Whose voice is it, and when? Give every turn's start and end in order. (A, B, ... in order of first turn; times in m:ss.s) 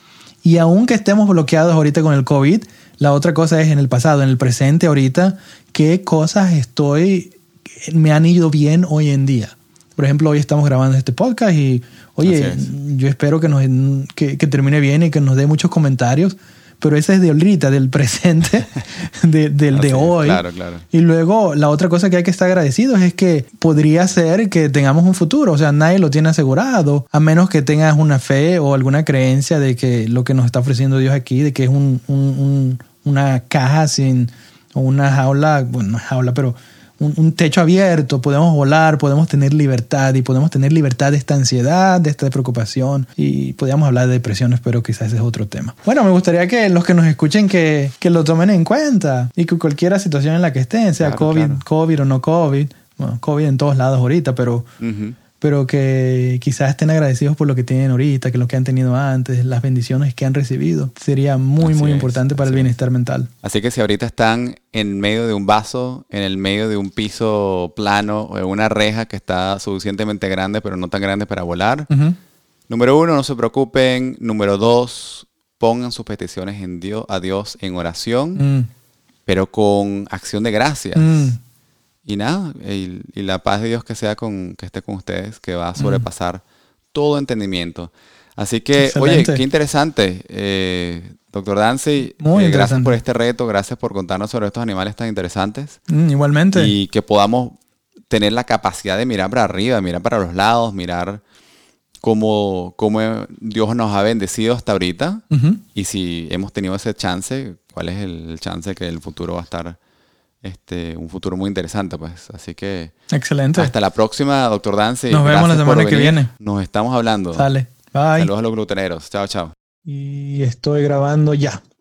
0:00.4-0:54.7 A
0:12.2-0:12.7 B
0:19.7-0:20.8 B
0:51.0-0:51.6 B
0:54.8-0:55.2 B
0:55.4-1:03.3 A
1:01.6-1:02.7 B
1:03.4-1:11.9 B
1:11.9-1:12.2 A
1:12.7-1:18.4 B
1:18.3-1:18.7 A
1:19.2-1:21.3 B
1:20.9-1:21.4 A
1:22.0-1:26.4 B
1:25.8-1:26.1 A
1:26.9-1:35.8 B
1:28.8-1:29.4 A
1:32.2-1:33.0 A
1:35.9-1:36.7 A
1:36.5-1:37.6 B
1:38.1-1:41.2 B
1:42.0-1:49.8 B
1:45.3-1:45.6 A
1:50.4-1:52.9 B
1:53.1-1:53.7 A
1:53.5-1:57.5 B
1:55.1-1:56.3 A
1:57.3-1:58.3 A
1:58.1-1:59.5 B
1:59.8-2:01.6 A